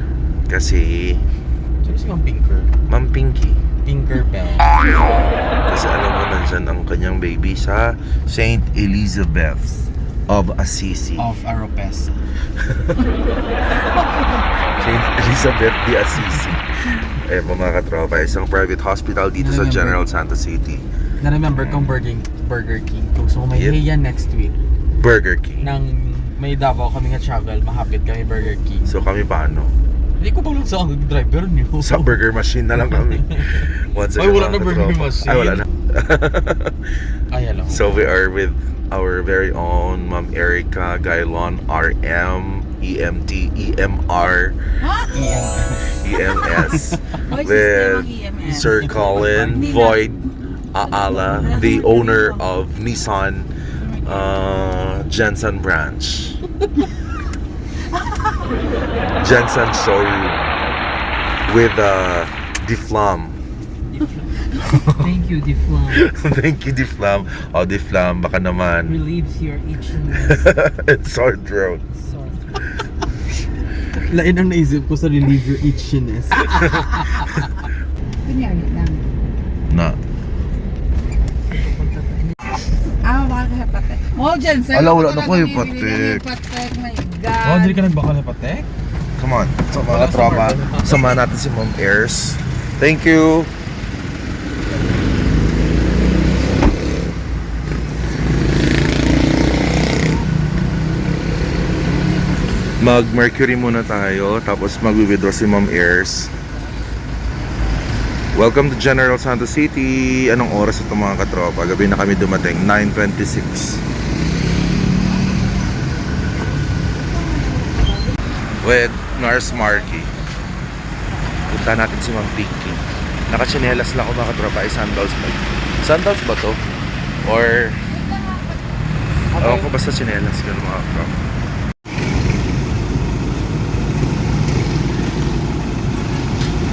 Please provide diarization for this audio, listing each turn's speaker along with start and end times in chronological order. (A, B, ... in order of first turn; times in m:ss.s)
0:00.5-0:01.2 A
0:01.8-0:02.7 B
0:02.9-0:03.6 A
0:03.8-0:04.7 B
0:05.7-0:11.3 A
0:11.2-0:12.2 B
0:12.6-0:13.0 A
0:14.7-0:20.8 A
0:19.4-0:20.0 B
0:21.2-0:24.6 B
0:21.5-0:22.0 A
0:23.5-0:23.8 A
0:24.9-0:25.7 A
0:25.6-0:29.0 B
0:28.8-0:29.8 A
0:30.2-0:32.2 B
0:31.8-0:37.0 A
0:32.8-0:35.6 B
0:37.3-0:37.8 B
0:37.6-0:44.6 A
0:44.8-0:45.3 C
0:45.1-0:46.0 B
0:45.9-0:50.2 A
0:46.6-0:47.0 B
0:47.3-0:48.8 C
0:48.6-0:49.8 B
0:49.5-0:50.1 C
0:50.7-0:53.5 A
0:51.0-0:52.4 C
0:54.0-0:56.4 A
0:59.2-1:00.4 A
1:01.5-1:03.4 A
1:03.9-1:06.1 D
1:04.7-1:05.1 A
1:05.9-1:09.0 A
1:08.8-1:10.6 D
1:10.2-1:11.8 A
1:12.0-1:12.6 D
1:14.0-1:17.4 B
1:18.2-1:19.0 C
1:19.7-1:20.0 A
1:21.4-1:22.4 D
1:23.0-1:27.9 C
1:24.7-1:26.2 A
1:27.4-1:28.7 B
1:29.2-1:33.5 A
1:29.8-1:31.2 B
1:42.4-1:42.7 C
1:42.8-1:46.3 A
1:48.3-1:53.8 A
1:58.6-2:00.1 A
1:59.4-2:00.3 C
2:01.5-2:06.6 A
2:07.2-2:07.8 A
2:09.4-2:09.7 B
2:09.4-2:11.2 A